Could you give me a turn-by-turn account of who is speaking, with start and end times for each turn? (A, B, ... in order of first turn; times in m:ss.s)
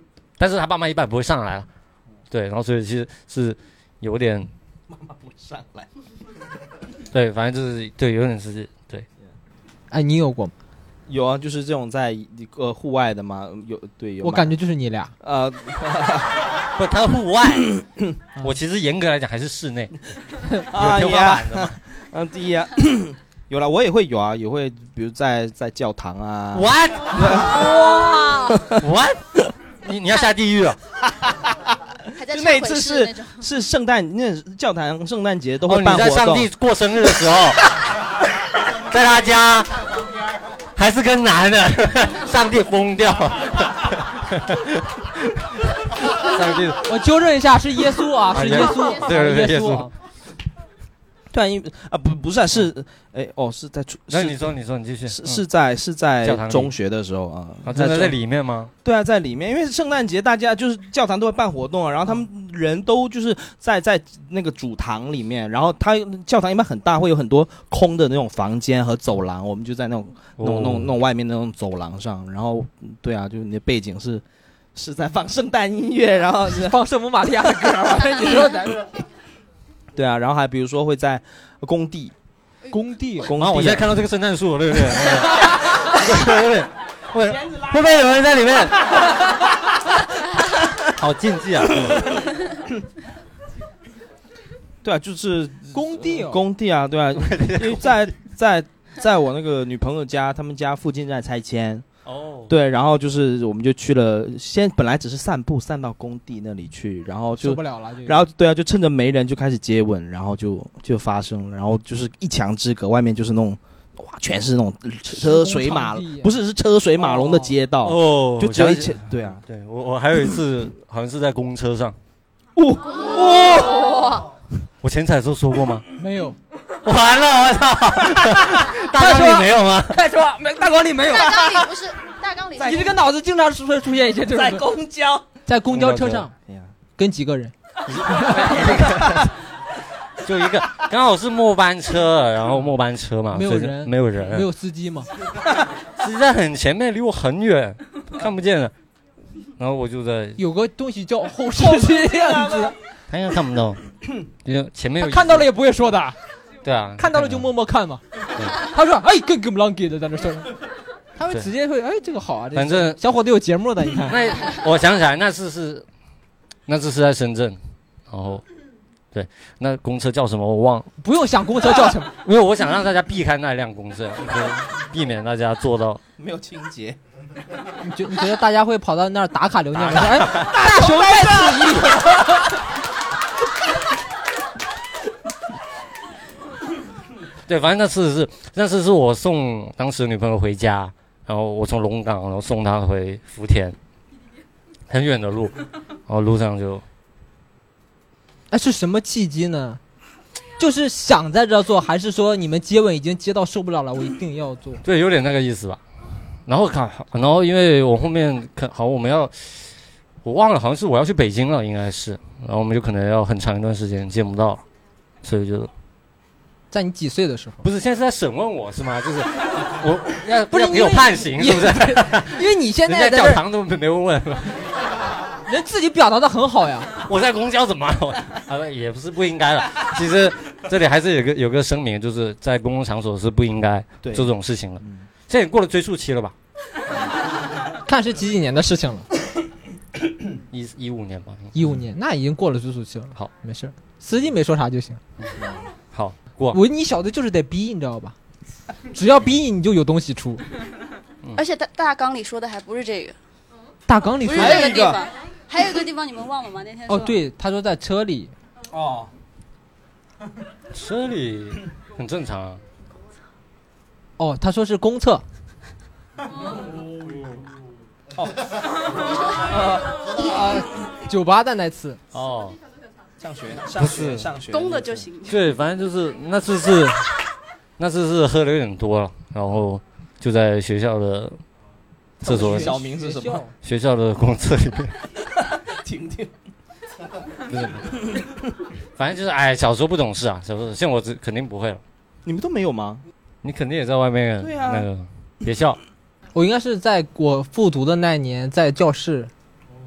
0:00.4-0:01.7 A
0:02.3-0:04.5 A
0:04.9-0:05.9 B
0:07.1-0:09.1 A
0:09.9-0:10.5 C
0:11.1-0:14.6 B
0:14.2-0:15.1 C
0:15.2-0:16.5 B
0:16.8-0:17.8 A
0:18.4-0:20.0 A
0:20.7-0:28.8 B
0:20.7-0:21.8 A
0:26.5-0:27.8 A
0:27.7-0:28.6 D
0:28.7-0:29.2 A
0:29.8-0:30.8 A
0:32.2-0:33.4 D
0:32.2-0:36.5 B
0:35.7-0:37.7 A
0:38.9-0:39.8 A
0:40.8-0:46.8 A
0:46.8-0:49.9 C
0:48.3-0:49.9 A
0:51.3-0:54.6 B
0:54.1-0:55.4 A
0:55.1-0:58.2 B
0:56.2-0:56.7 A
0:57.6-0:58.7 A
0:58.8-1:14.2 B
1:10.4-1:10.9 A
1:14.8-1:16.8 B
1:16.5-1:18.9 C
1:20.0-1:22.1 B
1:22.7-1:23.3 C
1:23.2-1:24.0 B
1:23.4-1:29.1 A
1:30.8-1:32.2 A
1:34.8-1:41.8 B
1:35.7-1:36.4 C
1:37.2-1:38.0 A
1:42.1-1:42.5 A
1:42.5-1:59.4 B
1:47.4-1:48.3 C
1:55.1-1:56.4 C
1:57.0-1:57.5 C
1:57.8-2:02.0 A
2:02.6-2:04.0 B
2:03.6-2:04.3 D
2:04.8-2:05.8 A
2:06.0-2:06.4 C
2:06.8-2:10.0 A
2:09.0-2:11.4 C
2:11.1-2:12.9 D
2:11.1-2:11.6 B
2:12.6-2:14.7 C
2:12.6-2:12.9 B
2:14.3-2:15.2 B
2:15.5-2:16.3 C
2:15.7-2:16.2 A
2:17.0-2:17.5 C
2:17.9-2:19.3 A
2:18.0-2:18.6 C
2:18.8-2:19.3 B
2:20.2-2:24.5 A
2:23.3-2:25.1 C
2:26.0-2:28.7 A
2:29.6-2:30.4 A
2:30.4-2:32.8 C
2:31.6-2:32.7 B
2:33.1-2:35.5 A
2:35.0-2:36.2 C
2:36.6-2:37.5 A
2:37.0-2:40.5 C
2:41.2-2:44.2 C
2:42.5-2:43.0 A
2:44.1-2:45.8 A
2:46.7-2:47.6 A
2:48.1-2:48.4 A
2:49.1-2:50.9 A
2:51.0-2:52.1 C
2:52.1-2:56.0 A
2:56.2-2:57.0 B
2:57.8-3:02.4 C
2:59.8-3:00.5 A
3:00.4-3:02.2 B
3:07.5-3:13.8 A
3:14.9-3:16.8 A
3:18.5-3:19.8 C
3:20.6-3:24.8 C
3:24.8-3:25.8 A
3:26.5-3:34.6 A
3:35.2-3:35.7 A
3:36.7-3:37.6 C
3:37.6-3:44.7 A
3:40.5-3:43.4 C
3:45.5-3:46.9 C
3:47.0-3:56.3 A
3:54.0-3:54.3 B
3:54.8-3:55.1 B
3:57.9-3:59.1 C
4:00.5-4:01.5 A
4:01.5-4:05.0 C
4:05.9-4:06.6 A
4:06.5-4:08.2 C
4:08.9-4:10.4 C
4:11.4-4:13.2 D
4:13.9-4:14.9 C
4:14.2-4:17.2 D
4:14.4-4:15.1 B
4:16.9-4:18.3 C
4:18.7-4:19.1 B
4:20.7-4:22.6 A
4:24.2-4:25.2 C
4:28.2-4:28.4 B
4:29.3-4:30.6 B
4:30.5-4:32.0 C
4:32.2-4:32.6 A
4:33.2-4:35.1 B
4:33.8-4:34.3 A
4:34.5-4:35.4 D
4:35.3-4:37.2 A
4:37.8-4:41.4 A
4:42.2-4:42.8 A
4:42.2-4:43.4 B
4:42.2-4:43.5 C
4:43.6-4:45.0 A
4:45.7-4:46.3 B
4:47.5-4:47.9 A
4:49.0-4:51.8 A
4:52.2-4:53.0 B
4:53.4-4:55.8 A
4:54.4-4:54.9 B
4:56.3-4:59.3 C